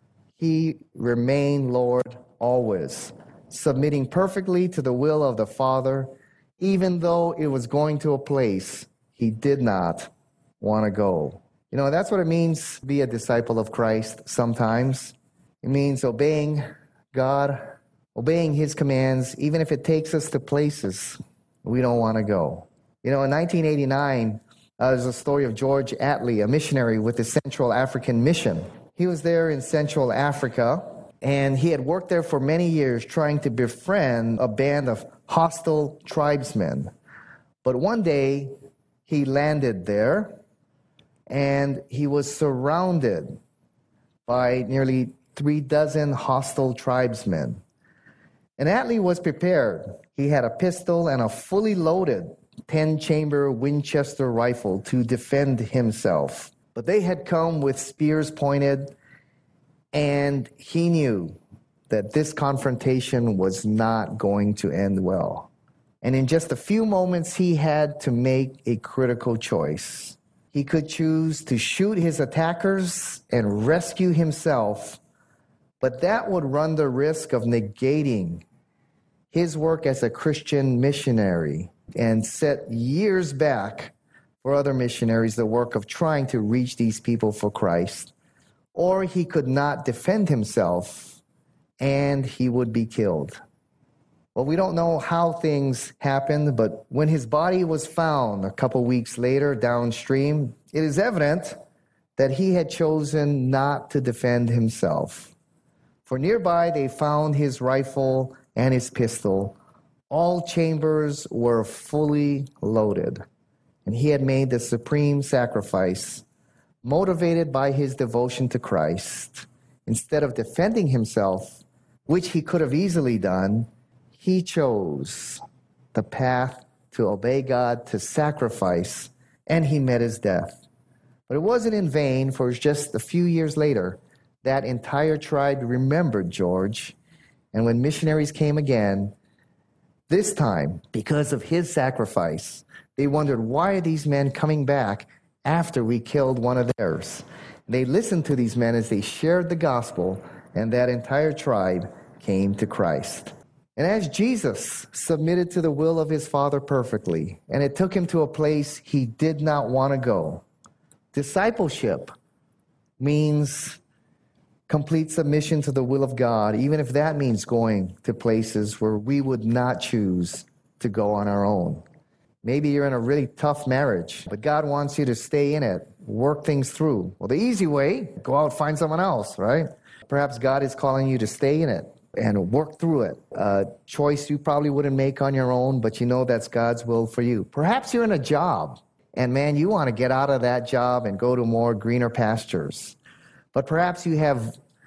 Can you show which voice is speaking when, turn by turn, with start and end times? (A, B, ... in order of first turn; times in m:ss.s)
0:00.4-0:36.9 A
0:37.6-0:38.5 A
0:39.0-0:40.4 A
0:41.3-0:43.4 A
0:44.3-0:47.6 A
0:48.6-0:58.9 A
0:59.9-1:05.5 A
1:06.0-1:15.0 A
1:15.8-1:18.4 A
1:19.3-1:28.1 A
1:28.8-1:31.2 A
1:31.8-1:33.4 A
1:34.3-1:41.6 A
1:42.2-1:45.3 A
1:46.0-1:49.6 A
1:50.1-1:53.2 A
1:53.8-1:56.2 A
1:56.8-2:05.4 A
2:05.9-2:10.6 A
2:11.3-2:17.0 A
2:17.5-2:19.1 A
2:20.1-2:40.4 A
2:41.1-2:42.1 A
2:43.0-2:43.8 A
2:44.7-2:51.8 A
2:52.4-3:13.0 A
3:13.5-3:14.6 A